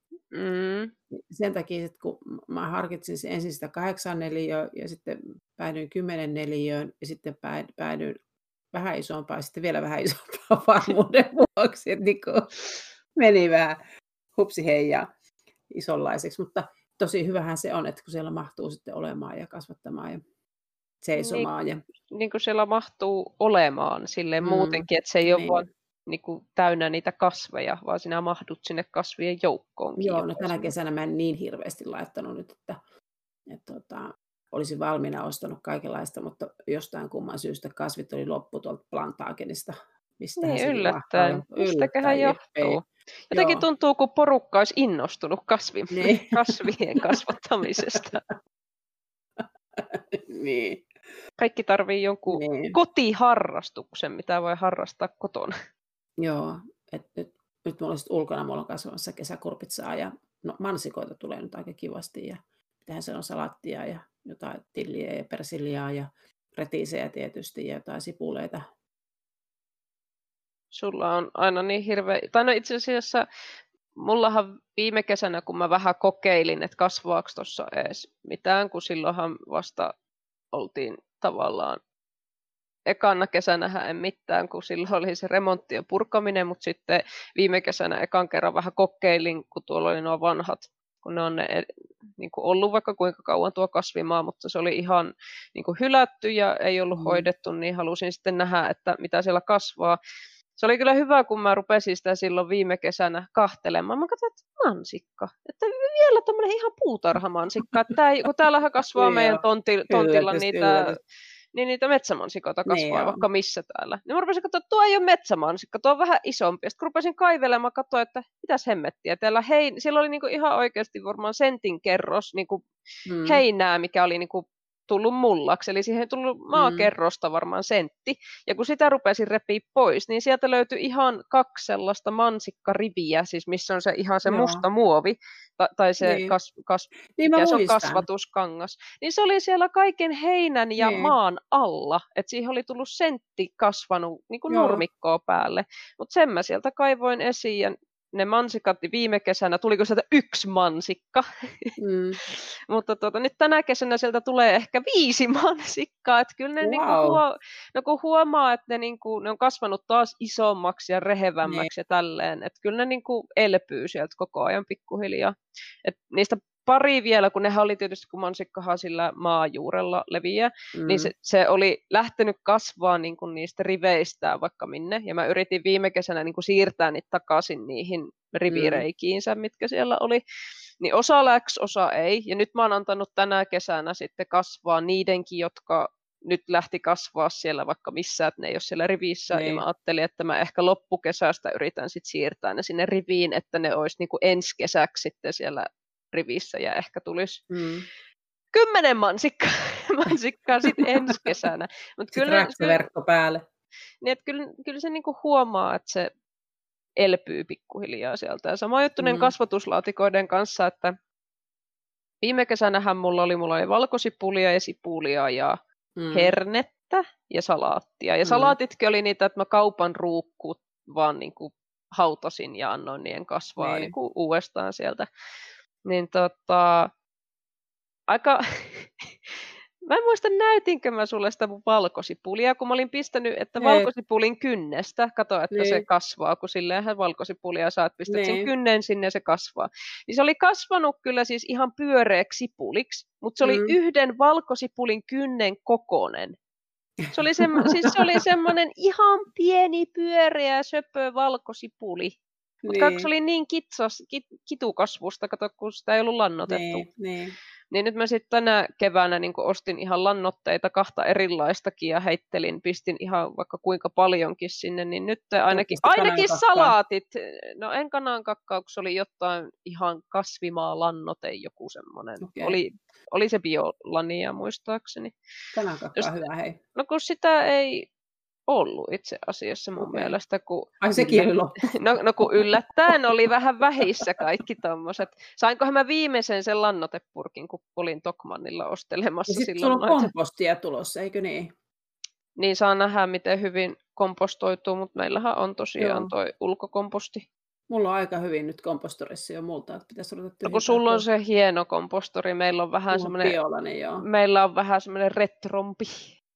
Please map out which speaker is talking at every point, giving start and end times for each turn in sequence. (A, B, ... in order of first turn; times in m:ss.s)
0:00.3-0:00.9 A
0:01.1-0:08.2 B
0:08.7-0:12.5 B
0:13.2-0:13.8 B
0:14.3-0:15.1 B
0:15.7-0:20.2 B
0:21.0-0:21.8 B
0:21.2-0:21.5 A
0:22.1-0:30.7 A
0:24.4-0:25.6 B
0:30.0-0:32.8 B
0:33.5-0:43.6 B
0:40.4-0:48.2 A
0:45.9-0:46.5 B
0:49.4-0:50.9 B
0:51.4-0:55.5 A
0:52.3-0:52.8 B
0:56.2-1:08.6 B
1:10.7-1:13.2 A
1:14.0-1:19.9 A
1:20.5-1:21.8 A
1:22.9-1:31.7 A
1:32.2-1:40.0 A
1:36.9-1:37.3 B
1:40.6-1:50.9 A
1:49.0-1:51.0 B
1:51.5-2:02.7 A
1:52.7-1:53.2 B
2:03.1-2:03.4 B
2:03.2-3:00.2 A
2:06.5-2:06.9 B
2:14.2-2:14.6 B
2:16.0-2:16.4 B
2:17.2-2:18.0 B
2:20.8-2:21.1 B
2:24.5-2:24.8 B
2:31.8-2:32.2 B
2:36.6-2:37.2 B
2:41.4-2:41.7 B
2:50.8-2:51.1 B
2:58.5-2:58.8 B
3:00.8-3:17.4 A
3:09.3-3:09.6 B
3:17.5-3:17.8 B
3:18.5-3:22.8 A
3:20.7-3:21.3 B
3:22.1-3:23.4 B
3:24.0-3:26.1 A
3:27.0-3:30.9 A
3:29.0-3:29.3 B
3:32.2-3:35.5 A
3:36.0-3:36.3 B
3:36.1-3:45.1 A
3:38.2-3:38.6 B
3:43.6-3:43.9 B
3:45.8-3:46.9 A
3:48.1-3:49.3 A
3:49.9-4:06.3 A
3:53.6-3:53.9 B
3:55.5-3:55.8 B
3:58.1-3:58.5 B
4:03.4-4:03.7 B
4:07.1-4:12.1 A
4:07.6-4:07.9 B
4:12.6-4:13.1 B
4:12.7-4:16.8 A
4:16.5-4:17.4 B
4:17.7-4:35.1 A
4:25.5-4:26.7 B
4:32.2-4:32.6 B
4:35.5-4:36.6 B
4:36.8-4:37.9 A
4:38.5-4:50.1 A
4:39.8-4:40.1 B
4:40.8-4:42.4 B
4:49.3-4:51.5 B
4:52.4-4:57.2 A
4:55.8-4:56.1 B
4:57.7-5:01.0 B
5:00.4-5:03.4 A
5:02.9-5:04.0 B
5:04.0-5:06.1 A